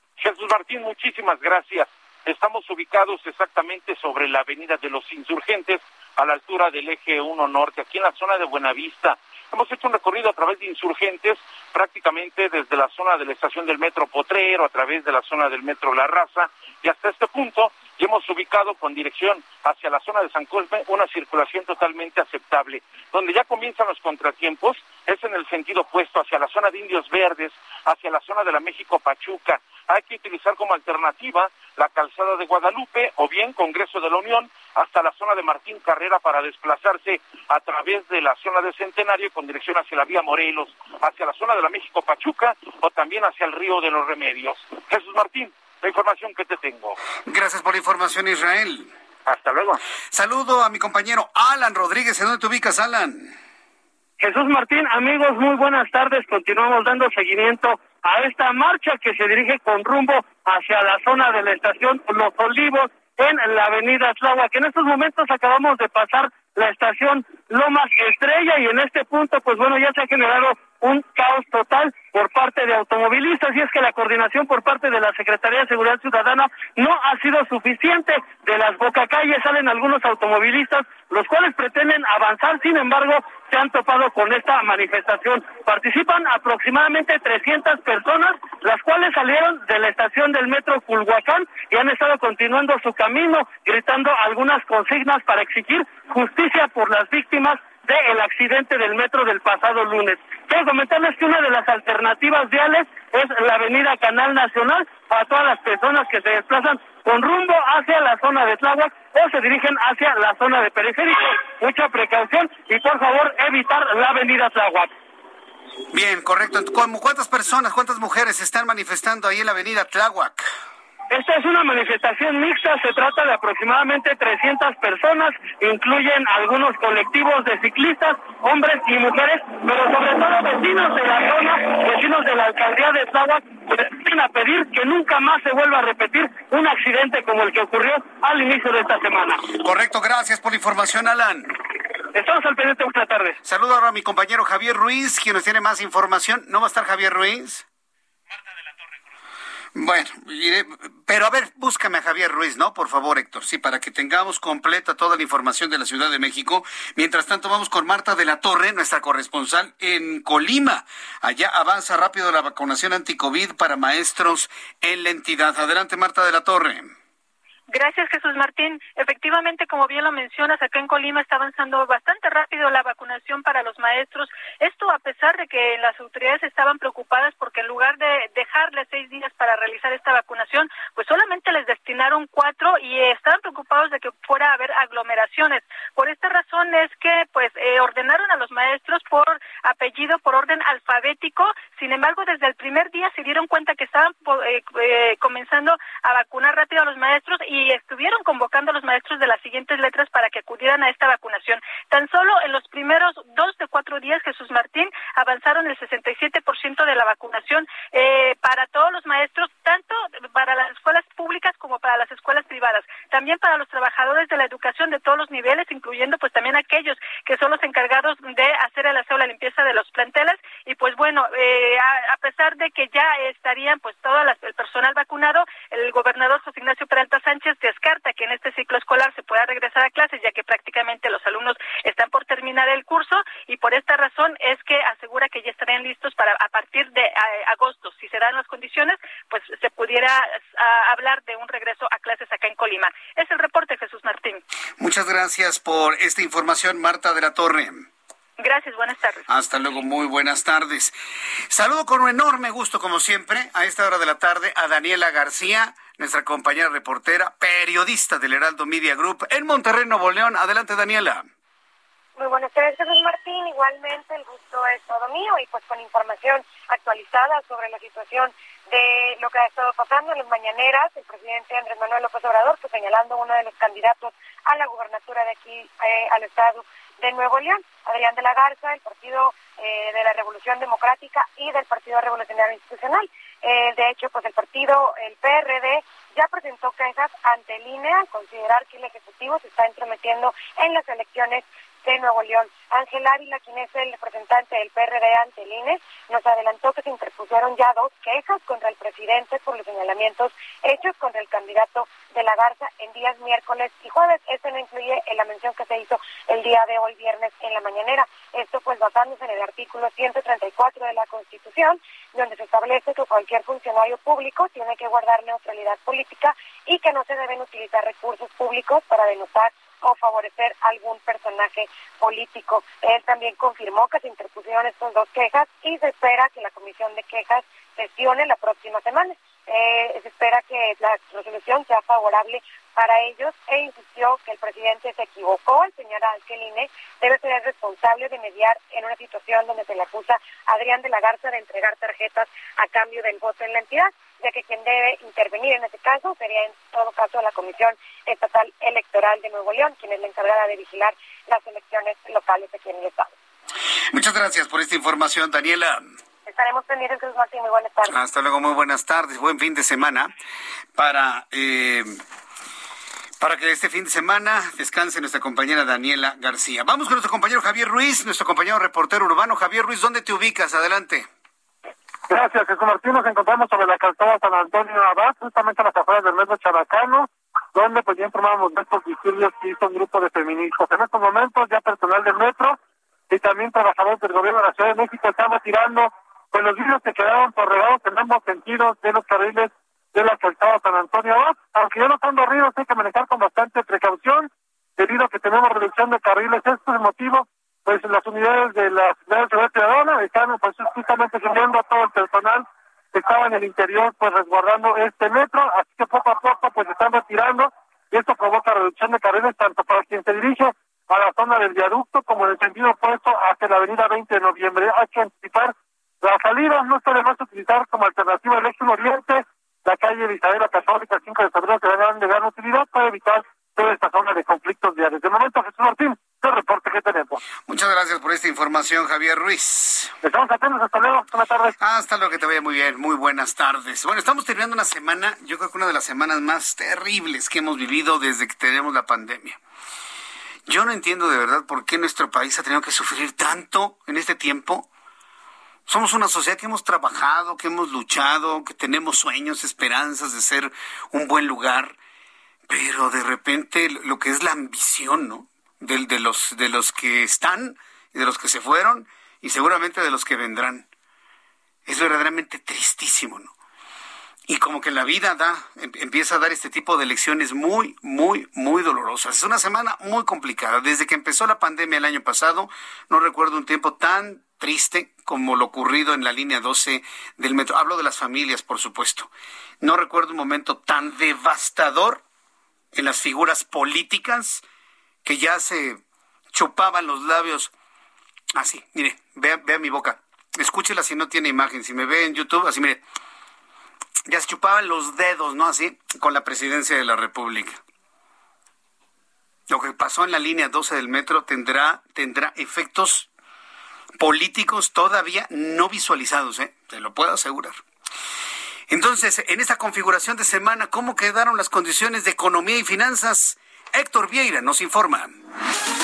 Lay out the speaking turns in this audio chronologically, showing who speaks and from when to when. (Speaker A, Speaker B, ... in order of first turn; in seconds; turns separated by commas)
Speaker A: 0.2-47.0, Speaker B: 47.2-48.9, Speaker A: 49.2-49.8, Speaker B: 50.1-53.3, Speaker C: 54.2-114.9, Speaker B: 115.9-120.5, Speaker C: 121.1-139.5, Speaker B: 139.5-141.5, Speaker C: 142.1-143.4, Speaker B: 143.4-147.6, Speaker B: 149.7-166.9, Speaker D: 167.7-244.4, Speaker B: 244.8-247.9, Speaker D: 248.4-249.2, Speaker B: 249.3-250.9, Speaker B: 251.5-261.2, Speaker E: 262.2-353.1, Speaker B: 353.9-355.8, Speaker E: 356.3-358.0, Speaker B: 357.9-360.1, Speaker B: 360.8-362.0, Speaker B: 363.2-371.1, Speaker F: 372.1-382.6, Speaker F: 383.1-427.2, Speaker B: 427.5-429.9, Speaker F: 430.0-431.5, Speaker B: 431.6-439.4, Speaker B: 440.5-444.7, Speaker B: 445.7-451.7, Speaker B: 452.5-460.6, Speaker B: 461.6-463.3, Speaker B: 464.3-479.1, Speaker B: 479.6-482.0, Speaker B: 482.7-484.4, Speaker B: 485.0-485.8, Speaker B: 486.3-487.5, Speaker B: 488.3-492.8, Speaker B: 494.1-497.6, Speaker B: 499.5-503.1, Speaker B: 504.0-507.6, Speaker B: 508.7-515.1